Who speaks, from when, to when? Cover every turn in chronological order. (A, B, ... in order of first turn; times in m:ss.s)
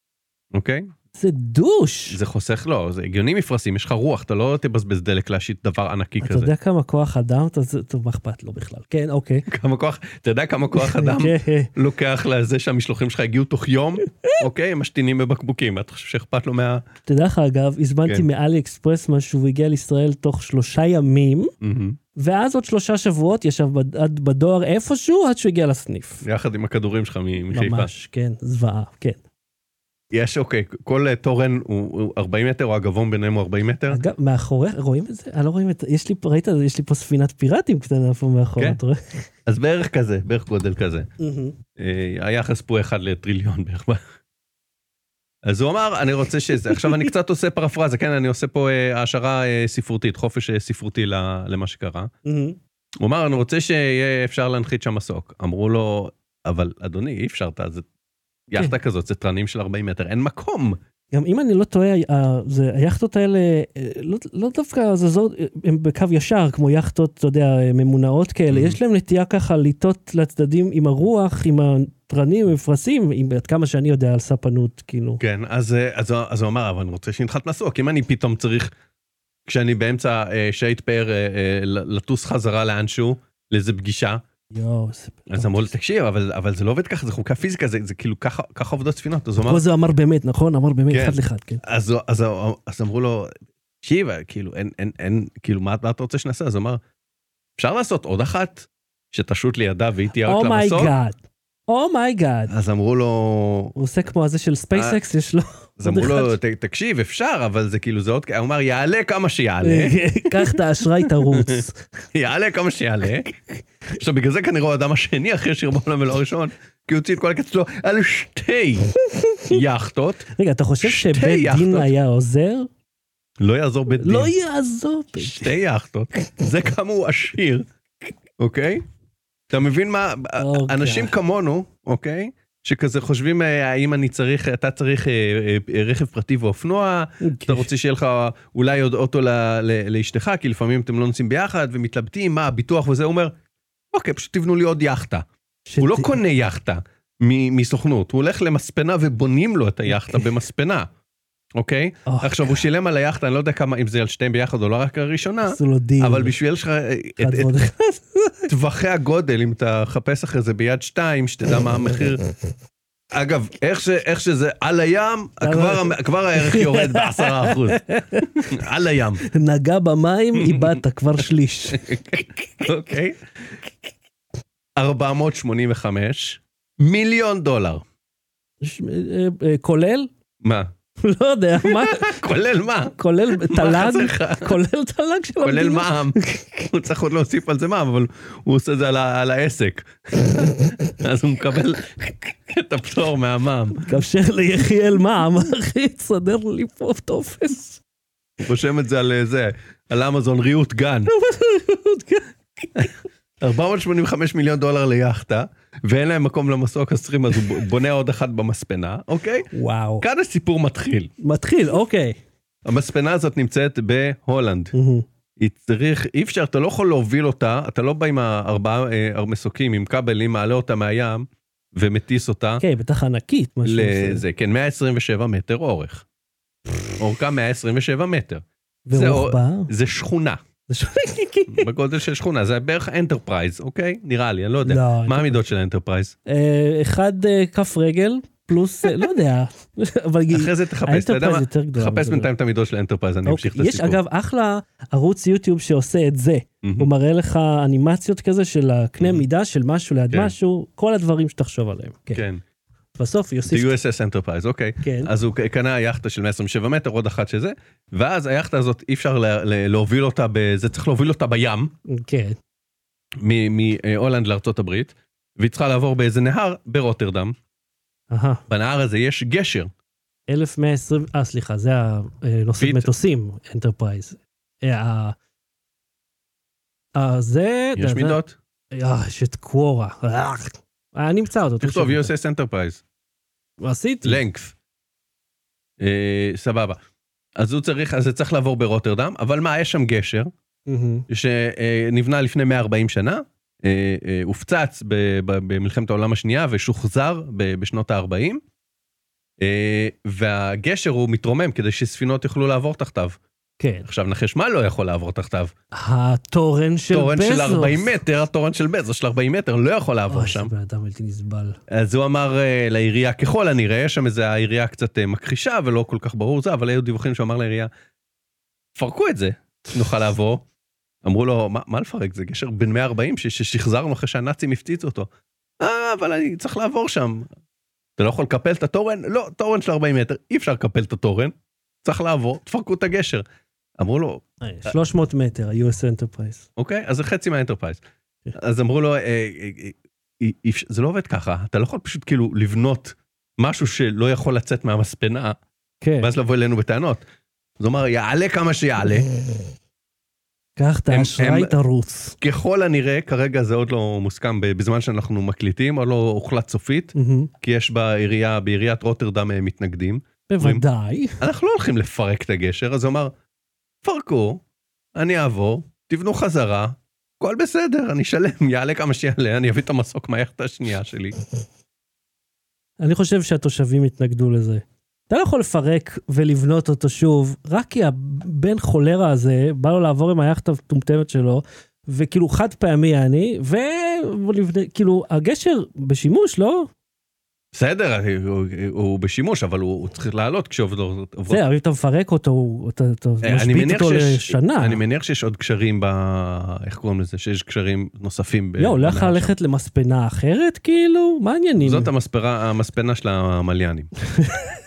0:00.5-0:00.9 A
0:01.2-0:02.2 B
0:02.1-0:06.5 A
0:06.2-0:09.5 B
0:09.5-0:16.8 A
0:10.8-0:11.7 B
0:14.1-0:14.4 B
0:17.0-0:21.5 B
0:21.6-0:22.0 A
0:22.2-0:26.2 B
0:26.2-0:27.9 A
0:27.5-0:29.2 B
0:30.1-0:34.0 A
0:33.9-0:39.3 B
0:39.4-0:41.1 A
0:41.2-0:41.6 B
0:41.8-0:44.0 A
0:45.4-0:52.1 A
0:52.2-0:52.6 B
0:53.0-0:57.8 A
0:58.5-1:00.8 A
1:01.1-1:15.2 B
1:08.5-1:08.8 A
1:15.2-1:18.7 A
1:19.5-1:24.2 A
1:24.5-1:25.6 B
1:25.3-1:29.6 A
1:29.4-1:31.6 B
1:30.9-1:36.8 A
1:37.6-1:40.9 A
1:40.2-1:42.5 B
1:42.5-1:43.7 A
1:43.8-1:46.4 B
1:45.8-1:58.9 A
1:49.6-1:51.8 B
1:59.0-1:59.6 B
1:59.5-2:00.3 A
2:00.3-2:02.7 B
2:00.8-2:01.9 A
2:03.4-2:04.3 A
2:04.0-2:05.5 B
2:05.2-2:07.7 A
2:08.4-2:08.8 A
2:09.5-2:23.3 A
2:10.4-2:11.1 B
2:17.2-2:17.7 B
2:23.9-2:25.2 A
2:25.7-2:26.2 B
2:25.8-2:30.9 A
2:29.9-2:30.2 B
2:31.6-2:37.5 A
2:32.0-2:32.6 B
2:35.4-2:36.3 B
2:37.2-2:38.5 B
2:38.5-2:42.2 A
2:43.1-2:47.8 A
2:45.4-2:48.5 B
2:48.4-2:49.2 A
2:49.2-2:52.0 B
2:50.3-2:50.8 A
2:51.7-2:53.2 A
2:54.8-2:57.8 A
2:58.6-3:00.1 B
3:00.4-3:00.7 A
3:01.0-3:02.2 B
3:01.6-3:04.6 A
3:02.9-3:06.7 B
3:05.4-3:13.8 A
3:13.9-3:17.8 B
3:18.4-3:21.1 A
3:21.1-3:22.9 B
3:23.4-3:29.5 A
3:29.5-3:30.0 B
3:30.0-3:31.1 A
3:31.2-3:32.2 B
3:32.6-3:34.7 A
3:34.7-3:35.0 B
3:35.4-3:42.6 A
3:42.6-3:44.2 B
3:43.6-3:46.0 A
3:47.0-3:50.4 A
3:48.9-3:49.7 B
3:50.7-3:51.7 B
3:51.5-3:56.1 A
3:54.6-3:55.4 B
3:56.3-4:02.3 B
4:00.3-4:04.0 A
4:03.2-4:12.2 B
4:06.6-4:06.9 A
4:12.1-4:12.4 A
4:13.0-4:13.7 B
4:13.5-4:21.7 A
4:14.8-4:15.1 B
4:21.9-4:22.4 B
4:23.2-4:27.4 A
4:28.1-4:28.4 B
4:28.5-4:29.7 A
4:30.3-4:35.2 B
4:32.6-4:32.9 A
4:36.9-4:38.2 B
4:37.8-4:38.4 A
4:38.7-4:42.1 B
4:41.6-4:42.8 A
4:43.6-4:44.2 B
4:44.0-4:44.5 A
4:45.8-4:46.8 A
4:47.4-4:50.3 A
4:50.7-4:51.0 B
4:51.1-4:58.4 A
4:59.4-5:03.2 A
5:03.6-5:03.8 B
5:03.8-5:05.5 A
5:05.7-5:07.9 B
5:06.9-5:10.5 A
5:10.1-5:11.6 B
5:11.7-5:17.7 A
5:18.8-5:20.4 A
5:21.0-5:25.1 A
5:25.6-5:27.3 A
5:28.0-5:33.2 A
5:33.8-5:34.7 A
5:34.4-5:36.5 B
5:36.6-5:37.8 A
5:38.3-5:45.4 A
5:45.8-5:46.1 B
5:46.0-5:47.0 A
5:47.6-5:49.1 A
5:50.6-5:52.2 B
5:50.9-5:51.5 A
5:52.2-6:00.6 A
5:56.9-5:57.3 B
6:00.3-6:01.2 B
6:01.2-6:03.1 A
6:03.8-6:04.4 A
6:05.0-6:11.2 A
6:12.8-6:26.7 B
6:27.5-6:31.4 A
6:31.3-6:34.8 B
6:33.2-6:39.3 A
6:38.6-6:41.9 B
6:41.6-6:43.9 A
6:44.2-6:44.5 B